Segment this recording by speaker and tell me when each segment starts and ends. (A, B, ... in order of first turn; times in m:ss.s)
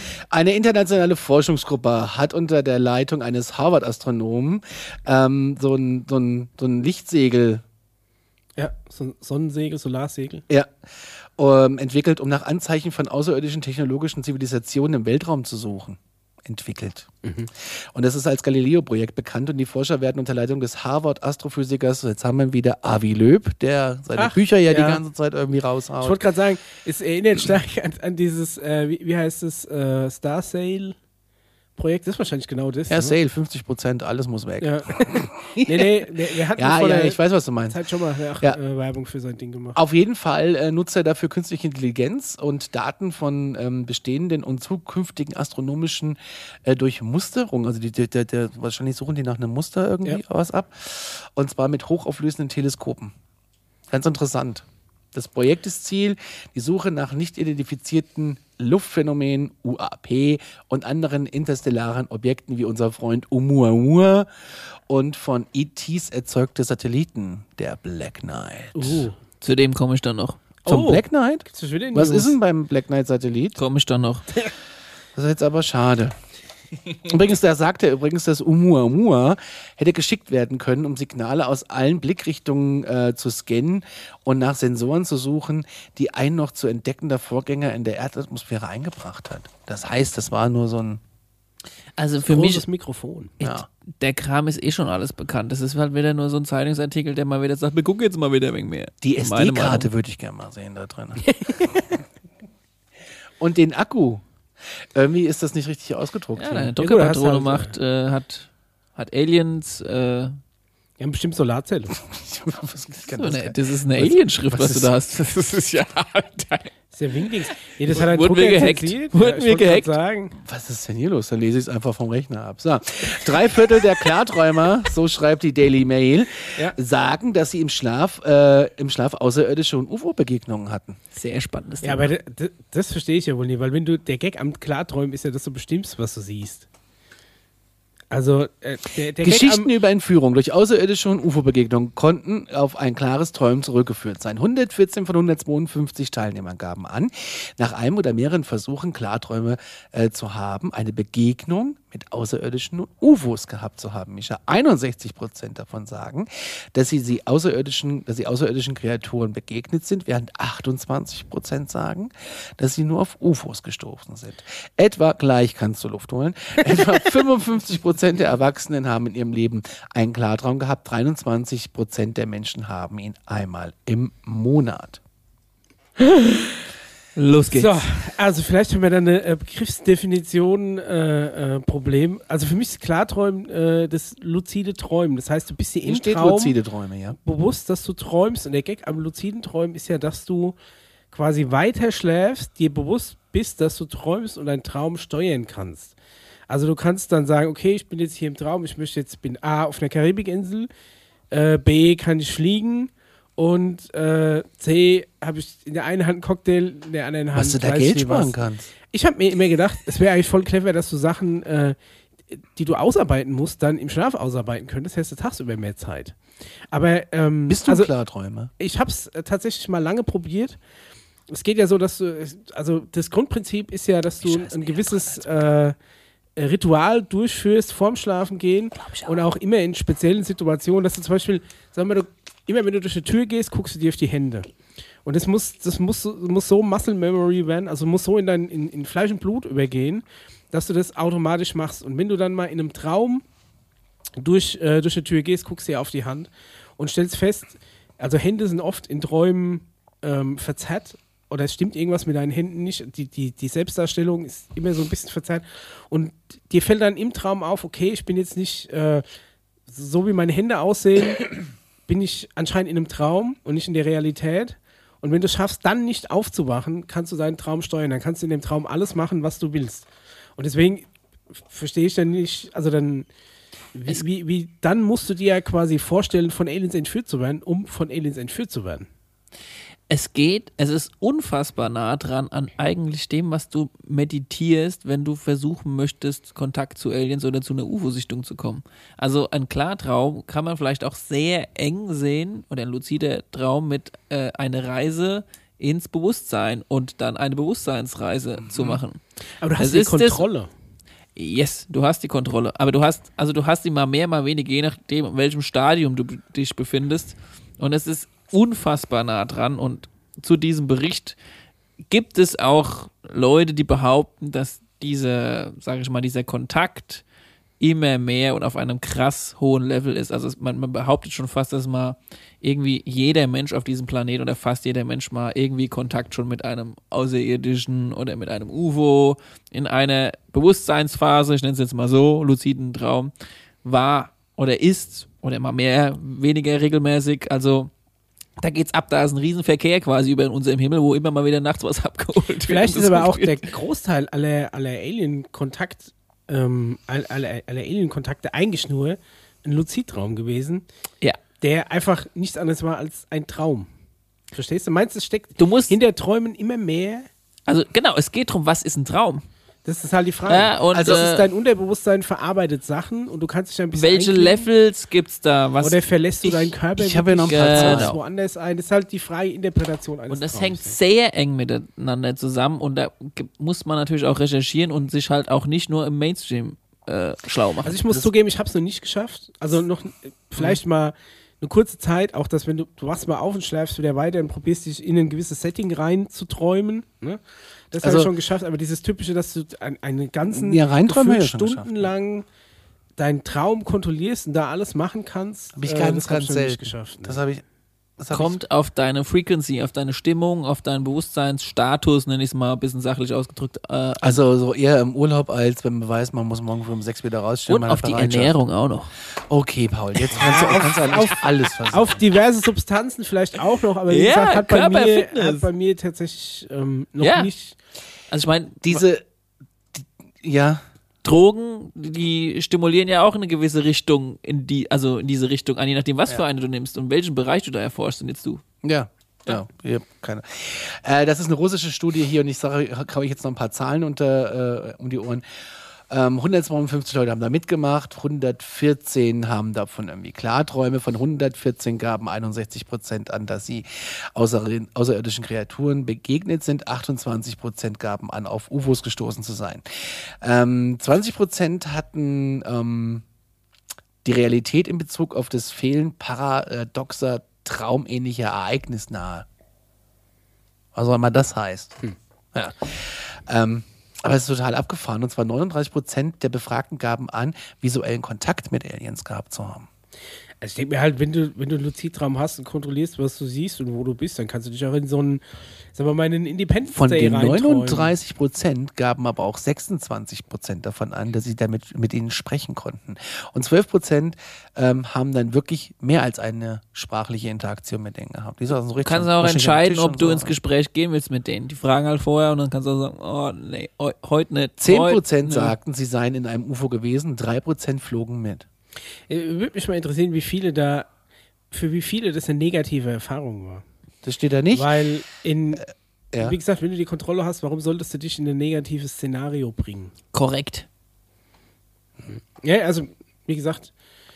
0:00.3-0:07.6 A
0:08.6-0:10.4 B
0:11.4-0:26.2 A
0:17.2-0:17.5 B
0:24.2-0:25.0 B
0:26.0-0:31.0 B
0:31.8-0:33.2 B
0:32.9-0:35.9 A
0:34.6-0:39.8 B
0:36.6-0:37.8 A
0:39.8-0:53.1 A
0:53.9-1:04.3 A
1:04.9-1:09.1 A
1:08.7-1:09.2 B
1:09.4-1:10.4 C
1:10.6-1:12.4 B
1:10.7-1:13.6 A
1:13.6-1:14.3 C
1:15.2-1:16.2 A
1:17.0-1:31.0 A
1:32.0-1:32.6 C
1:32.3-1:33.4 B
1:33.4-1:39.9 C
1:39.0-1:41.8 A
1:41.3-1:41.7 B
1:43.4-1:44.2 A
1:44.9-1:46.7 A
1:46.4-1:50.4 C
1:46.8-1:47.7 B
1:51.0-1:52.0 B
1:52.0-1:54.9 A
1:53.1-1:56.7 C
1:56.9-2:00.4 B
1:57.9-1:59.9 C
2:00.4-2:11.0 A
2:11.1-2:12.1 C
2:11.8-2:16.7 B
2:18.1-2:19.7 B
2:19.2-2:55.0 A
2:57.2-2:57.8 C
2:57.5-3:06.6 B
3:05.8-3:07.2 A
3:07.2-3:10.6 B
3:11.1-3:16.0 B
3:16.5-3:20.7 B
3:21.3-3:28.4 B
3:27.3-3:28.7 A
3:28.9-3:31.8 B
3:32.3-3:36.2 B
3:36.7-3:37.9 B
3:37.5-3:38.5 A
3:38.6-3:40.6 B
3:41.3-3:45.8 B
3:44.2-3:45.4 A
3:46.4-3:54.5 B
3:55.0-4:03.2 B
4:04.2-4:19.0 B
4:19.7-4:21.3 B
4:21.9-4:30.9 B
4:31.5-4:33.1 B
4:33.8-4:38.9 B
4:39.9-4:59.0 C
4:58.4-4:58.8 A
4:59.4-5:00.5 B
4:59.6-5:00.2 C
5:01.2-5:11.2 C
5:11.9-5:17.0 C
5:17.6-5:33.1 C
5:33.6-5:37.7 C
5:38.4-5:43.5 C
5:42.5-5:50.6 B
5:51.4-5:53.7 B
5:54.3-5:57.1 B
5:55.4-5:55.8 C
5:57.5-5:59.2 C
5:59.6-6:04.5 B
6:00.3-6:01.3 C
6:00.7-6:01.0 A
6:03.8-6:06.3 C
6:05.6-6:10.8 B
6:06.8-6:07.9 A
6:07.3-6:08.0 C
6:10.1-6:17.8 C
6:17.6-6:27.2 B
6:27.7-6:32.3 B
6:27.8-6:28.1 A
6:30.3-6:31.9 A
6:33.0-6:37.2 B
6:35.6-6:37.4 A
6:38.0-6:38.4 A
6:38.1-6:44.2 C
6:44.0-6:48.4 A
6:47.5-6:48.9 C
6:49.2-6:52.0 A
6:50.1-6:57.6 B
6:53.9-6:55.5 C
6:57.0-6:57.3 C
6:58.1-6:58.8 C
6:58.6-6:59.0 A
6:59.8-7:00.6 A
7:01.0-7:08.4 C
7:08.6-7:15.2 A
7:15.9-7:33.0 A
7:34.0-7:39.3 A
7:40.8-7:49.7 A
7:50.4-7:55.2 B
7:55.7-7:57.9 B
7:56.7-8:10.4 A
8:08.8-8:15.6 C
8:14.6-8:18.5 A
8:19.1-8:20.9 B
8:21.5-8:23.6 B
8:24.0-8:24.7 A
8:24.5-8:25.6 B
8:26.2-8:29.9 B
8:30.1-8:30.7 C
8:32.1-8:33.7 B